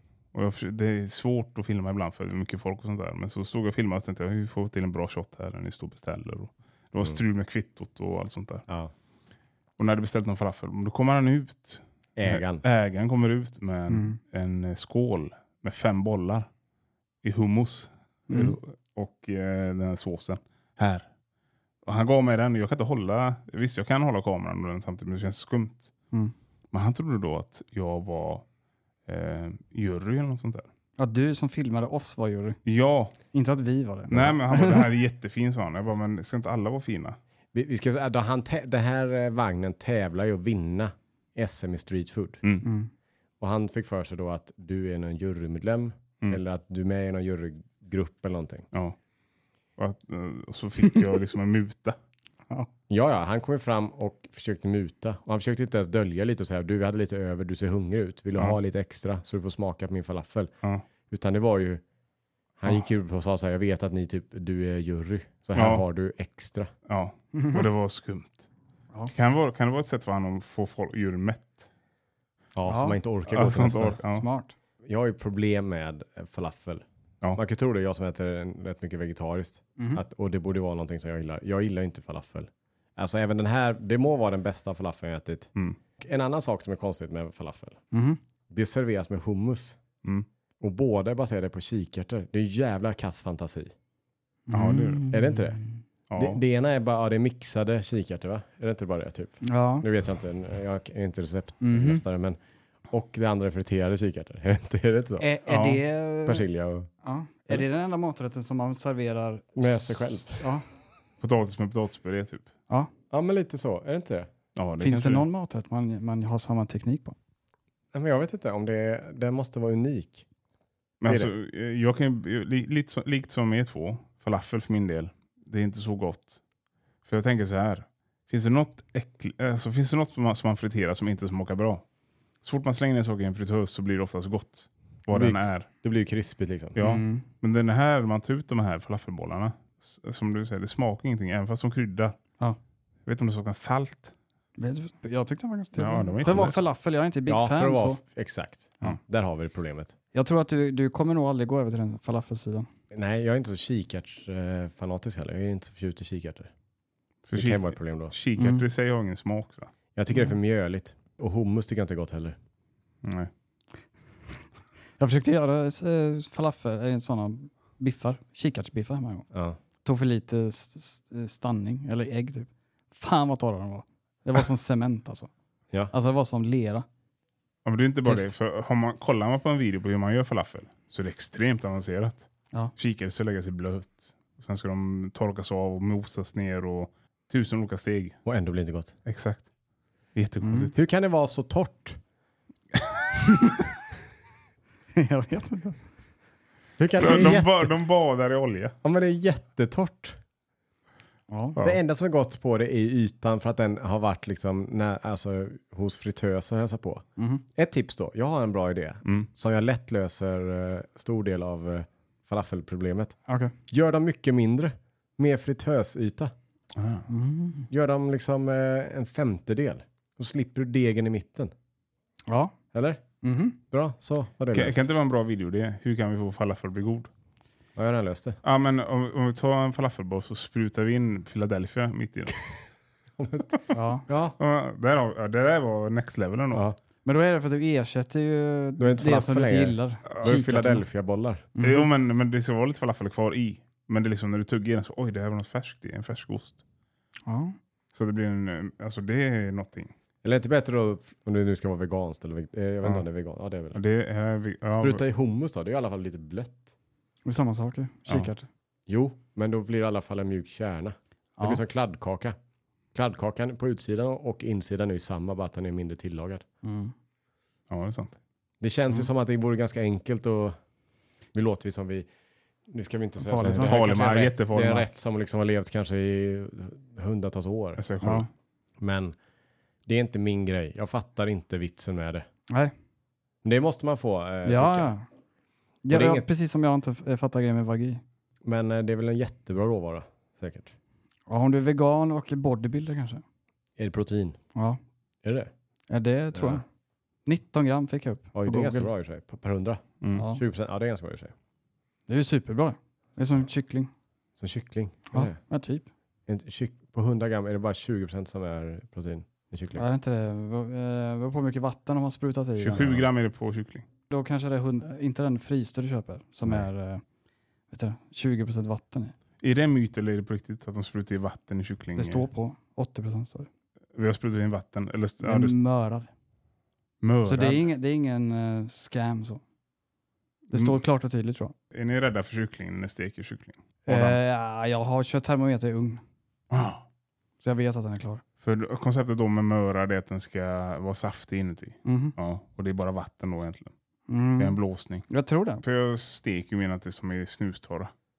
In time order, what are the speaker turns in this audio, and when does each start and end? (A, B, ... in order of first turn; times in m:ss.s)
0:00.3-0:08.6 A
0:08.7-0:08.9 B
0:09.8-0:16.5 A
0:12.2-0:12.6 B
0:13.9-0:14.2 C
0:17.2-0:21.1 A
0:18.3-0:18.5 C
0:21.8-0:25.9 A
0:26.7-0:28.4 A
0:29.1-0:30.7 A
0:31.0-0:32.6 C
0:32.6-0:33.1 A
0:33.3-0:34.9 C
0:34.1-0:37.2 A
0:37.5-0:42.4 B
0:42.6-0:42.9 C
0:43.4-0:48.7 B
0:49.8-0:52.0 A
0:52.9-1:00.5 B
1:01.1-1:01.8 B
1:02.6-1:06.7 B
1:05.5-1:05.8 A
1:06.9-1:08.5 A
1:09.1-1:11.7 A
1:12.5-1:14.0 B
1:12.7-1:13.0 C
1:13.3-1:14.2 A
1:14.0-1:14.5 C
1:14.8-1:27.8 B
1:19.8-1:20.0 C
1:27.9-1:28.2 C
1:28.5-1:29.8 B
1:30.6-1:33.7 B
1:34.5-1:35.7 C
1:34.5-1:35.0 A
1:35.1-1:35.6 B
1:36.1-1:36.4 A
1:36.2-1:42.4 B
1:39.4-1:39.8 C
1:41.6-1:42.0 C
1:42.9-1:45.3 B
1:45.2-1:46.4 C
1:45.5-1:45.8 A
1:46.2-1:46.9 B
1:47.0-1:50.6 C
1:49.6-1:50.4 B
1:51.2-1:52.5 A
1:53.1-1:54.3 B
1:54.6-1:55.3 A
1:54.8-1:57.2 C
1:57.9-2:00.2 B
2:01.0-2:06.4 A
2:01.0-2:01.3 B
2:07.0-2:11.8 A
2:12.4-2:15.7 A
2:15.1-2:16.8 B
2:16.8-2:22.2 A
2:16.8-2:17.2 C
2:23.0-2:24.1 A
2:24.6-2:28.0 C
2:25.8-2:26.6 A
2:27.2-2:29.9 B
2:30.1-2:32.7 C
2:32.9-2:36.5 B
2:37.3-2:39.7 A
2:37.3-2:38.2 B
2:38.4-2:38.6 C
2:40.0-2:42.4 B
2:43.0-2:43.3 A
2:45.0-2:49.2 C
2:49.3-2:49.6 B
2:49.8-2:55.3 C
2:55.9-2:56.8 C
2:57.6-3:08.2 A
2:58.0-2:58.3 C
3:08.2-3:08.9 B
3:09.0-3:09.5 A
3:10.1-3:10.8 A
3:10.4-3:10.7 C
3:10.7-3:12.0 B
3:15.0-3:15.8 C
3:16.8-3:17.7 B
3:17.0-3:18.8 A
3:18.8-3:20.2 B
3:21.3-3:21.6 C
3:21.6-3:33.2 B
3:27.2-3:27.4 C
3:33.3-3:33.5 C
3:33.7-3:36.3 B
3:36.7-3:37.1 A
3:37.1-3:37.7 C
3:37.7-3:41.5 B
3:42.3-3:42.5 C
3:42.7-3:43.0 B
3:43.2-3:43.6 C
3:43.7-3:44.8 B
3:44.5-3:47.1 A
3:47.8-3:48.4 B
3:48.4-3:52.4 A
3:53.2-3:54.4 B
3:53.7-3:54.0 C
3:54.4-3:56.6 A
3:56.5-3:56.8 B
3:57.0-4:00.8 C
3:58.8-4:01.5 B
4:01.6-4:01.9 C
4:01.6-4:06.6 A
4:07.2-4:07.6 C
4:07.9-4:09.9 A
4:10.2-4:13.8 B
4:13.7-4:15.0 A
4:14.7-4:16.7 B
4:17.2-4:18.5 C
4:18.9-4:22.4 B
4:22.9-4:26.4 B
4:26.6-4:26.9 C
4:27.7-4:28.2 A
4:28.6-4:30.6 B
4:31.3-4:32.1 B
4:32.7-4:37.8 B
4:33.2-4:33.8 C
4:33.5-4:34.9 A
4:37.8-4:38.3 A
4:38.8-4:39.2 B
4:39.8-4:42.3 B
4:43.4-4:44.9 B
4:44.4-4:45.0 C
4:45.8-4:48.0 C
4:45.9-4:46.2 B
4:48.4-4:50.7 B
4:51.3-4:53.2 C
4:53.8-4:54.4 B
4:54.5-4:54.8 C
4:55.2-4:55.5 B
4:55.9-4:56.6 C
4:56.3-4:56.6 B
4:57.2-4:58.9 C
4:58.3-5:01.3 B
5:00.1-5:00.4 C
5:02.1-5:03.9 C
5:04.4-5:05.4 B
5:05.1-5:05.9 C
5:06.3-5:09.8 B
5:09.7-5:13.0 C
5:12.6-5:13.8 A
5:14.1-5:17.0 C
5:17.7-5:19.1 C
5:19.4-5:22.3 A
5:22.0-5:23.5 C
5:23.9-5:25.6 A
5:25.2-5:26.1 C
5:27.0-5:27.7 A
5:27.2-5:29.4 C
5:30.5-5:31.5 C
5:30.5-5:30.8 A
5:31.7-5:34.2 A
5:33.8-5:36.0 C
5:36.5-5:36.8 A
5:37.4-5:38.2 C
5:38.4-5:43.7 A
5:41.8-5:42.1 C
5:44.1-5:44.6 C
5:44.4-5:45.1 A
5:45.1-5:45.6 C
5:45.6-5:47.9 A